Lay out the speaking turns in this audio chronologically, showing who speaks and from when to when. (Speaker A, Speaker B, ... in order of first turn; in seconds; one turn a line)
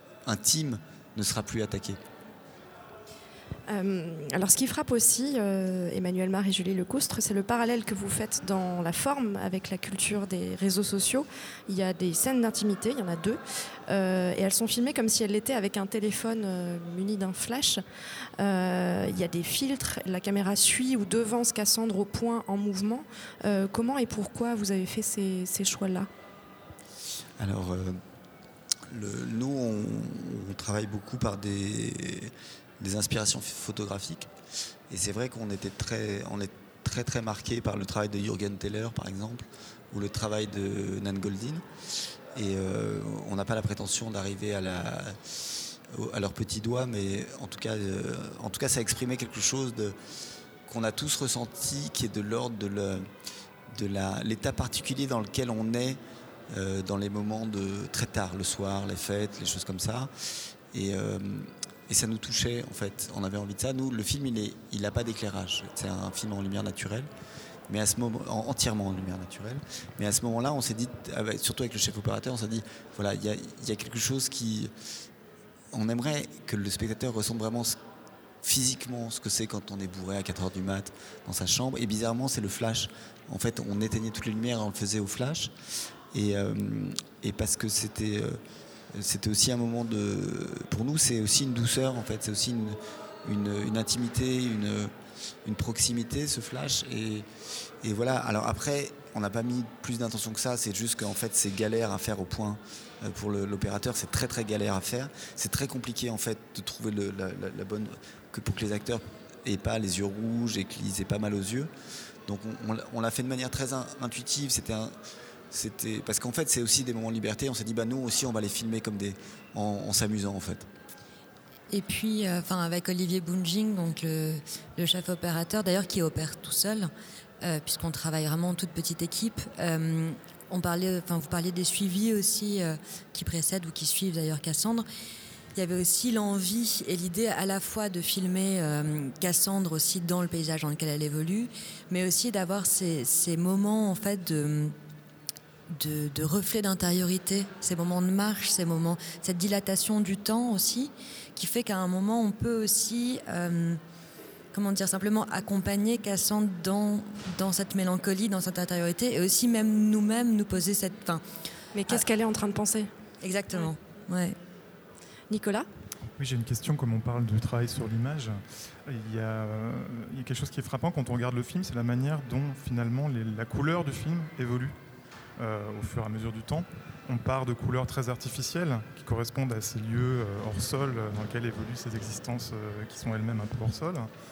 Speaker A: 0.2-2.0
Speaker B: 3.7-17.8
Speaker B: 18.4-26.1
Speaker A: 27.4-28.0
Speaker A: 28.9-34.3
Speaker A: 34.9-41.6
Speaker A: 42.3-45.2
Speaker A: 45.9-50.0
Speaker A: 50.6-53.1
Speaker A: 53.7-60.1
Speaker A: 60.7-67.1
Speaker A: 67.7-74.7
Speaker A: 75.7-77.8
Speaker A: 78.4-85.5
Speaker A: 86.1-88.4
Speaker A: 88.9-94.9
Speaker A: 95.4-97.3
Speaker A: 97.8-111.7
Speaker A: 112.2-114.9
Speaker A: 115.5-120.7
Speaker C: 121.7-134.8
Speaker C: 135.5-144.7
Speaker C: 145.7-153.8
Speaker C: 154.5-161.2
Speaker B: 161.7-162.9
Speaker C: 163.2-164.4
Speaker B: 165.3-165.7
Speaker D: 166.2-174.7
Speaker D: 175.4-184.1